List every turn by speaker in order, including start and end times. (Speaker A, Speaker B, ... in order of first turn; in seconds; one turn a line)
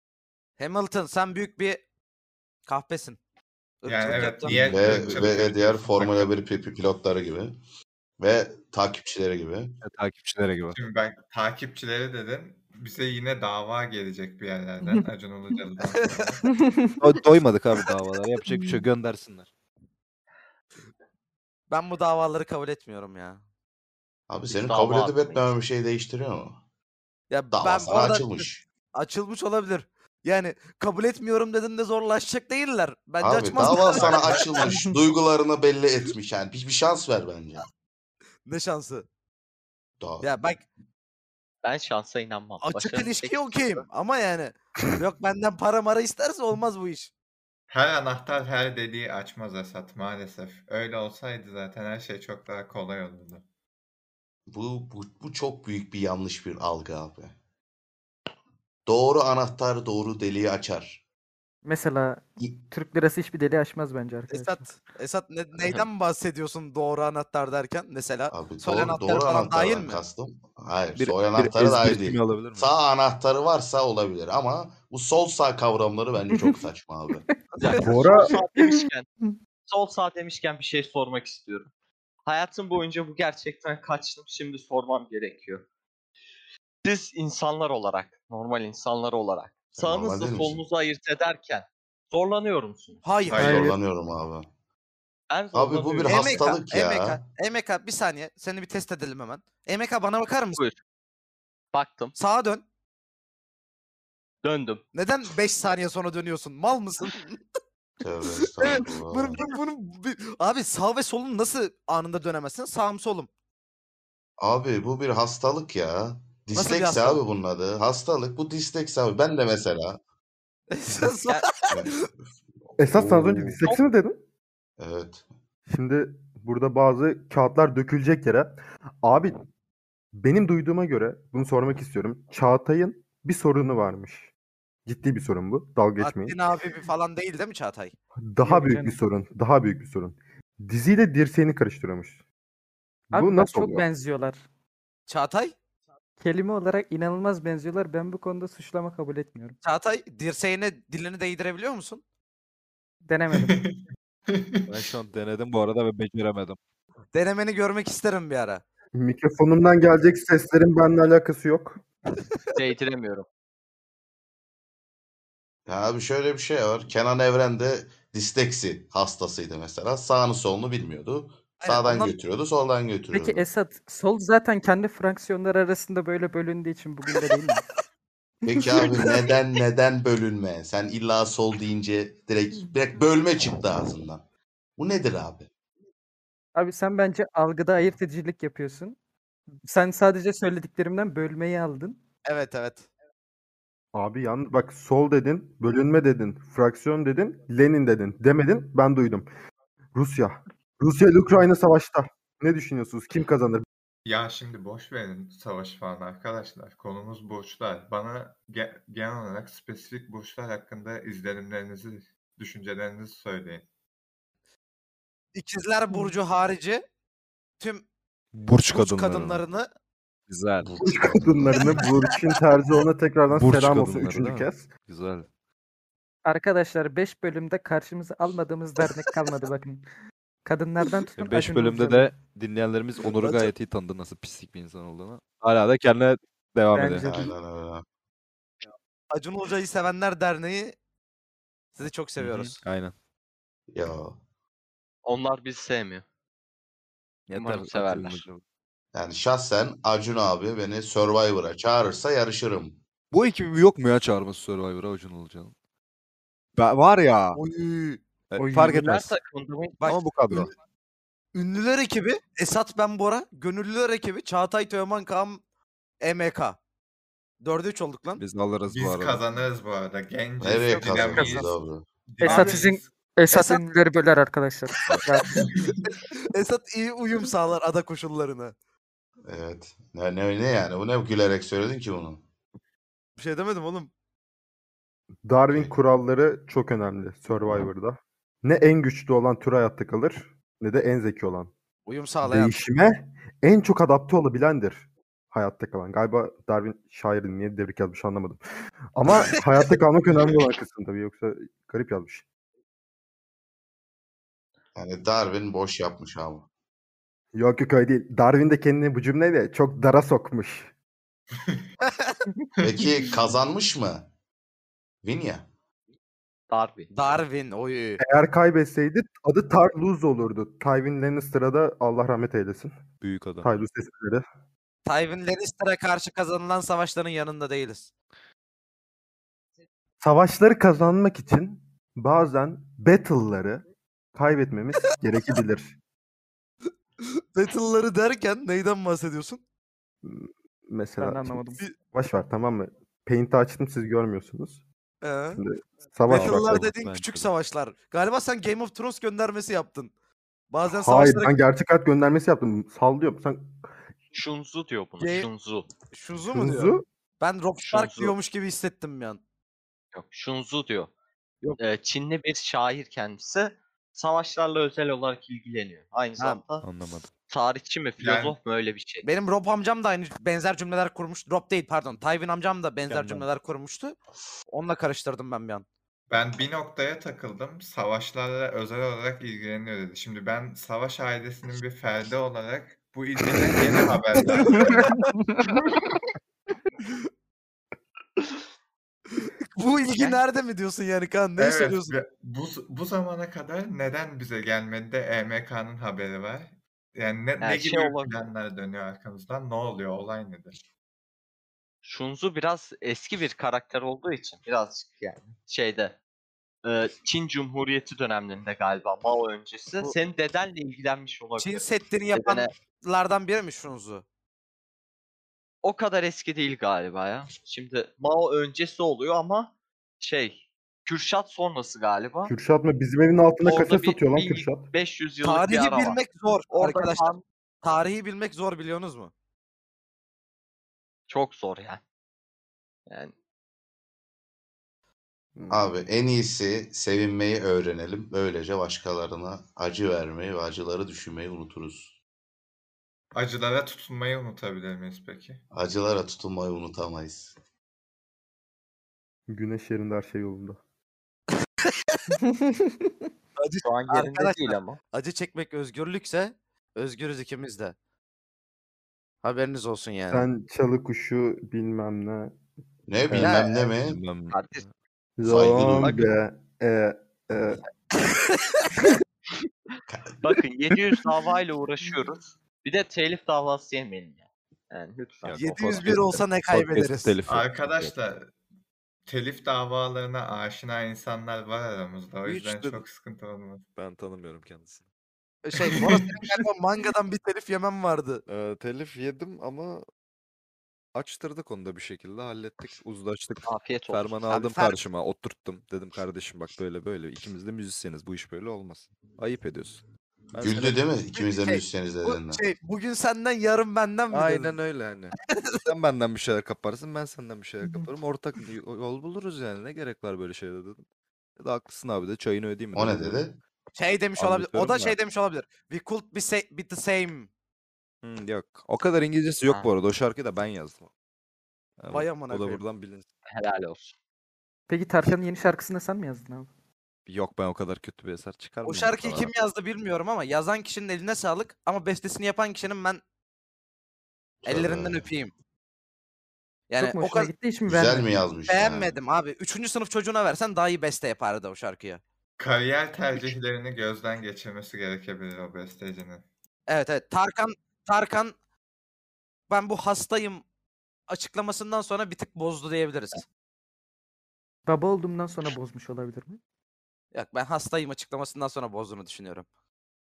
Speaker A: 0.6-1.8
Speaker A: 2.7-3.2
Speaker A: 3.8-4.7
Speaker B: 3.8-6.3
Speaker C: 4.4-7.6
Speaker D: 4.5-5.3
Speaker C: 8.2-9.8
Speaker D: 9.8-10.8
Speaker B: 10.7-16.5
Speaker E: 16.4-17.0
Speaker D: 17.0-19.5
Speaker E: 18.5-18.8
Speaker A: 21.7-23.4
Speaker C: 24.3-26.6
Speaker F: 24.5-25.6
Speaker A: 27.3-34.8
Speaker C: 27.5-28.6
Speaker C: 33.2-37.7
Speaker A: 38.5-39.0
Speaker C: 40.0-40.4
Speaker A: 40.2-40.6
Speaker F: 41.6-43.8
Speaker A: 42.6-47.1
Speaker B: 47.7-53.4
Speaker C: 54.5-57.3
Speaker C: 58.9-61.0
Speaker E: 61.6-64.7
Speaker A: 64.3-70.0
Speaker C: 68.3-77.2
Speaker D: 71.0-72.7
Speaker A: 77.6-78.2
Speaker F: 77.6-79.1
Speaker G: 77.8-78.3
Speaker E: 78.5-79.3
Speaker F: 79.7-81.7
Speaker F: 82.2-85.6
Speaker F: 86.8-93.0
Speaker C: 89.8-90.6
Speaker A: 93.0-93.7
Speaker B: 93.3-93.7
Speaker C: 93.3-94.5
Speaker E: 93.4-93.7
Speaker F: 95.3-96.5
Speaker C: 95.5-97.2
Speaker A: 96.0-100.6
Speaker F: 101.7-102.1
Speaker A: 102.2-102.6
Speaker F: 104.4-104.8
Speaker A: 104.9-107.4
Speaker C: 108.0-109.4
Speaker A: 108.6-113.3
Speaker C: 114.4-120.0
Speaker A: 116.5-117.2
Speaker A: 120.7-122.0
Speaker C: 121.7-121.9
Speaker G: 122.8-124.2
Speaker D: 122.9-123.6
Speaker C: 124.8-125.2
Speaker G: 125.7-129.4
Speaker G: 130.1-134.3
Speaker G: 134.8-136.4
Speaker A: 136.0-137.9
Speaker G: 138.2-142.2
Speaker E: 138.4-139.0
Speaker G: 143.1-143.8
Speaker E: 143.1-144.4
Speaker A: 145.1-145.5
Speaker E: 146.2-149.6
Speaker A: 149.6-152.0
Speaker E: 153.0-153.6
Speaker B: 153.3-154.9
Speaker D: 154.7-156.6
Speaker A: 157.1-158.6
Speaker G: 158.9-161.8
Speaker F: 162.5-163.2
Speaker C: 165.7-173.4
Speaker A: 171.6-172.1
Speaker E: 173.1-177.6
Speaker C: 178.4-184.2
Speaker A: 178.9-179.3
Speaker C: 184.8-185.5
Speaker E: 186.5-189.0
Speaker E: 189.6-192.0
Speaker A: 192.2-192.9
Speaker G: 193.9-199.3
Speaker G: 199.9-203.7
Speaker B: 204.1-213.7
Speaker A: 215.3-216.8
Speaker A: 217.6-217.8
Speaker D: 218.3-219.4
Speaker A: 218.7-219.7
Speaker D: 220.3-220.7
Speaker C: 220.6-221.5
Speaker G: 220.8-224.7
Speaker D: 223.3-225.3
Speaker E: 226.2-229.8
Speaker E: 230.4-232.1
Speaker D: 231.2-237.2
Speaker A: 233.0-233.5
Speaker E: 236.7-237.2
Speaker C: 237.0-237.8
Speaker A: 239.1-240.7
Speaker A: 241.7-242.6
Speaker D: 242.2-242.9
Speaker C: 243.7-244.2
Speaker F: 245.0-246.0
Speaker D: 247.3-248.4
Speaker F: 247.3-248.2
Speaker C: 248.9-252.8
Speaker D: 253.1-255.5
Speaker D: 256.6-257.4
Speaker A: 257.3-258.0
Speaker D: 258.3-259.1
Speaker F: 258.5-259.8
Speaker A: 259.8-260.5
Speaker D: 259.9-260.5
Speaker A: 261.3-265.4
Speaker A: 266.0-266.6
Speaker A: 267.4-268.2
Speaker D: 268.2-269.3
Speaker B: 268.6-271.5
Speaker C: 270.4-271.9
Speaker A: 270.8-271.3
Speaker E: 271.1-271.4
Speaker B: 272.1-272.9
Speaker E: 272.2-275.3
Speaker A: 272.2-272.6
Speaker B: 275.4-275.9
Speaker A: 276.2-278.5
Speaker C: 279.2-282.2
Speaker A: 283.2-283.9
Speaker G: 285.2-291.5
Speaker C: 285.5-285.7
Speaker A: 291.9-292.6
Speaker G: 292.2-298.4
Speaker G: 298.9-302.2
Speaker C: 304.7-306.4
Speaker G: 307.3-310.7
Speaker B: 311.4-311.7
Speaker A: 311.8-312.1
Speaker B: 312.6-313.1
Speaker C: 312.6-314.1
Speaker C: 315.0-315.5
Speaker F: 316.5-316.9
Speaker A: 316.9-318.0
Speaker G: 318.0-322.7
Speaker D: 323.0-323.5
Speaker G: 323.4-324.2
Speaker A: 324.8-327.9
Speaker G: 330.0-333.6
Speaker G: 334.1-335.8
Speaker A: 337.0-339.4
Speaker G: 340.0-344.6
Speaker E: 341.0-341.6
Speaker A: 345.0-345.4
Speaker G: 345.3-346.7
Speaker A: 346.1-349.9
Speaker D: 346.1-347.3
Speaker A: 350.5-351.3
Speaker G: 350.6-353.6
Speaker F: 354.1-355.7
Speaker A: 355.0-355.3
Speaker A: 355.9-359.2
Speaker G: 356.3-356.8
Speaker F: 357.6-358.1
Speaker F: 359.9-360.9
Speaker F: 361.6-366.6
Speaker A: 366.2-366.4
Speaker D: 366.6-367.1
Speaker F: 367.3-369.1
Speaker B: 368.0-368.4
Speaker A: 369.0-373.9
Speaker D: 372.9-373.3
Speaker A: 374.5-375.6
Speaker B: 376.1-385.1
Speaker A: 384.2-384.6
Speaker E: 385.0-385.4
Speaker A: 389.1-391.9
Speaker F: 389.9-390.2
Speaker B: 391.4-400.6
Speaker F: 397.4-398.3
Speaker F: 401.8-406.0
Speaker F: 406.6-412.5
Speaker A: 411.4-414.0
Speaker F: 415.6-422.3
Speaker G: 422.2-424.7
Speaker F: 423.4-427.2
Speaker A: 425.2-427.1
Speaker A: 427.6-429.1
Speaker F: 431.1-431.8
Speaker F: 432.9-433.1
Speaker G: 435.4-435.6
Speaker C: 435.5-441.9
Speaker B: 443.1-445.4
Speaker C: 445.5-447.3
Speaker G: 449.3-450.6
Speaker A: 451.6-452.0
Speaker E: 452.1-452.9
Speaker A: 453.4-457.7
Speaker F: 453.6-454.8
Speaker A: 459.2-460.3
Speaker G: 460.1-462.4
Speaker C: 462.9-464.0
Speaker A: 463.2-463.7
Speaker D: 463.8-464.7
Speaker F: 464.3-464.6
Speaker G: 465.2-467.6
Speaker C: 465.2-466.0
Speaker D: 465.4-466.1
Speaker A: 468.0-468.8
Speaker C: 469.9-470.2
Speaker F: 470.2-475.6
Speaker D: 475.2-477.9
Speaker A: 475.3-477.1
Speaker B: 477.2-478.3
Speaker B: 479.1-483.6
Speaker D: 482.2-482.8
Speaker D: 483.8-484.8
Speaker A: 485.4-488.2
Speaker D: 488.2-489.9
Speaker D: 490.9-500.8
Speaker F: 493.4-494.2
Speaker A: 494.3-494.8
Speaker C: 500.4-502.4
Speaker A: 501.1-504.6
Speaker D: 504.1-505.1
Speaker A: 505.2-505.7
Speaker D: 505.7-510.8
Speaker D: 511.4-513.2
Speaker C: 512.7-513.4
Speaker A: 513.8-517.3
Speaker D: 514.2-515.0
Speaker D: 518.0-520.9
Speaker D: 521.8-523.0
Speaker A: 521.9-522.6
Speaker F: 523.3-523.9
Speaker E: 524.7-526.5
Speaker D: 527.1-529.3
Speaker A: 528.6-533.0
Speaker C: 534.4-535.1
Speaker A: 534.4-535.3
Speaker A: 536.7-537.3
Speaker E: 536.8-538.2
Speaker C: 537.7-539.0
Speaker A: 538.5-542.0
Speaker B: 542.4-546.2
Speaker A: 546.7-548.3
Speaker A: 549.5-550.4
Speaker A: 551.1-553.2
Speaker E: 554.7-556.4
Speaker A: 557.1-559.5